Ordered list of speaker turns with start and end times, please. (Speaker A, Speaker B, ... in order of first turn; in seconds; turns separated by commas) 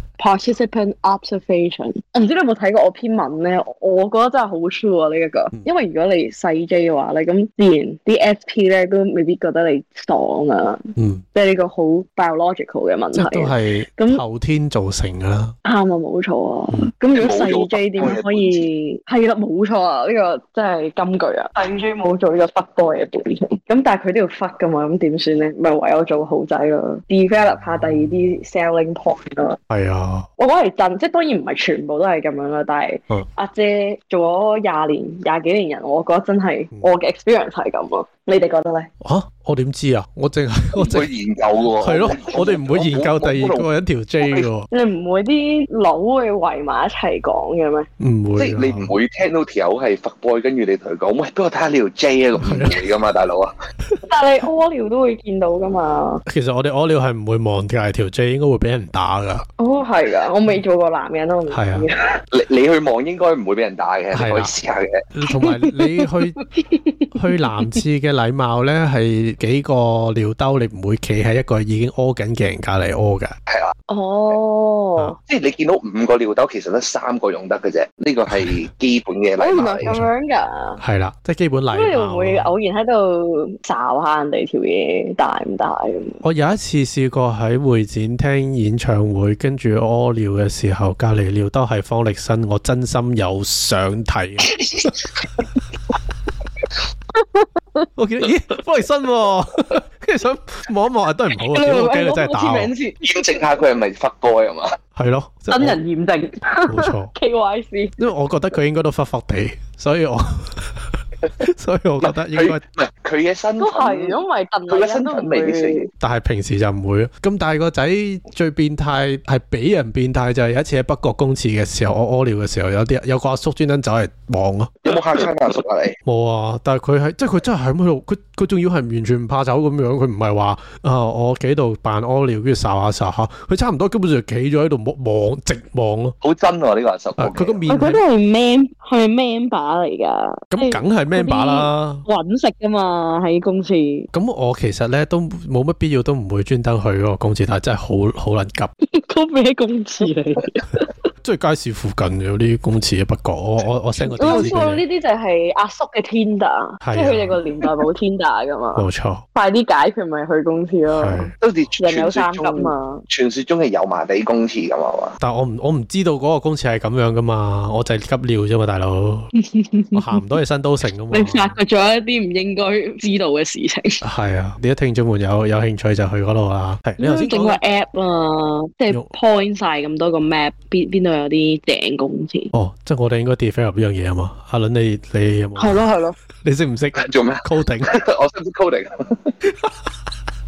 Speaker A: 0.2-14.2, Speaker B: 11.0-11.2, Speaker B: 13.1-15.6, Speaker A: 15.7-29.6, Speaker C: 17.1-18.7, Speaker B: 29.7-30.3, Speaker A: 30.4-38.9, Speaker B: 39.0-41.1, Speaker C: 40.8-43.7, Speaker B: 41.8-44.7, Speaker C: 44.2-44.5, Speaker A: 44.7-47.9, Speaker B: 48.0-49.0, Speaker C: 48.4-53.5, Speaker B: 52.4-52.9, Speaker A: 54.0-56.2, Speaker B: 56.3-59.5, Speaker A: 59.6-62.2, Speaker B: 61.5-61.9, Speaker C: 62.3-65.0, Speaker B: 64.1-64.5, Speaker B: 65.1-66.4, Speaker A: 65.3-67.8, Speaker B: 67.1-73.3, Speaker C: 73.5-73.7, Speaker A: 73.9-75.2, Speaker C: 75.3-80.0, Speaker B: 78.3-78.6, Speaker A: 79.4-80.8, Speaker B: 80.8-82.5, Speaker A: 81.7-86.2, Speaker B: 86.2-94.6, Speaker A: 97.1-97.9, Speaker B: 98.0-102.7, Speaker A: 101.4-103.0, Speaker C: 103.0-104.8, Speaker B: 105.0-105.8, Speaker A: 105.5-108.0, Speaker B: 106.7-107.1, Speaker B: 108.0-112.6, Speaker C: 112.0-115.9, Speaker A: 113.6-115.9, Speaker B: 116.0-124.9, Speaker C: 124.8-126.0, Speaker B: 126.0-136.2, Speaker C: 136.2-137.6, Speaker B: 137.2-138.0, Speaker A: 137.7-144.1, Speaker B: 140.5-142.1, Speaker B: 144.1-148.7, Speaker A: 148.8-150.9, Speaker B: 151.2-154.8, Speaker A: 154.2-163.1, Speaker B: 156.8-157.4, Speaker B: 158.8-159.2, Speaker B: 160.9-161.3, Speaker C: 161.4-165.2, Speaker B: 165.2-169.3, Speaker A: 169.4-170.2, Speaker B: 169.9-171.6, Speaker A: 171.1-174.0, Speaker B: 174.0-177.6, Speaker A: 177.0-182.5, Speaker B: 182.5-185.9, Speaker A: 185.6-186.2, Speaker B: 186.4-187.9, Speaker C: 187.0-189.3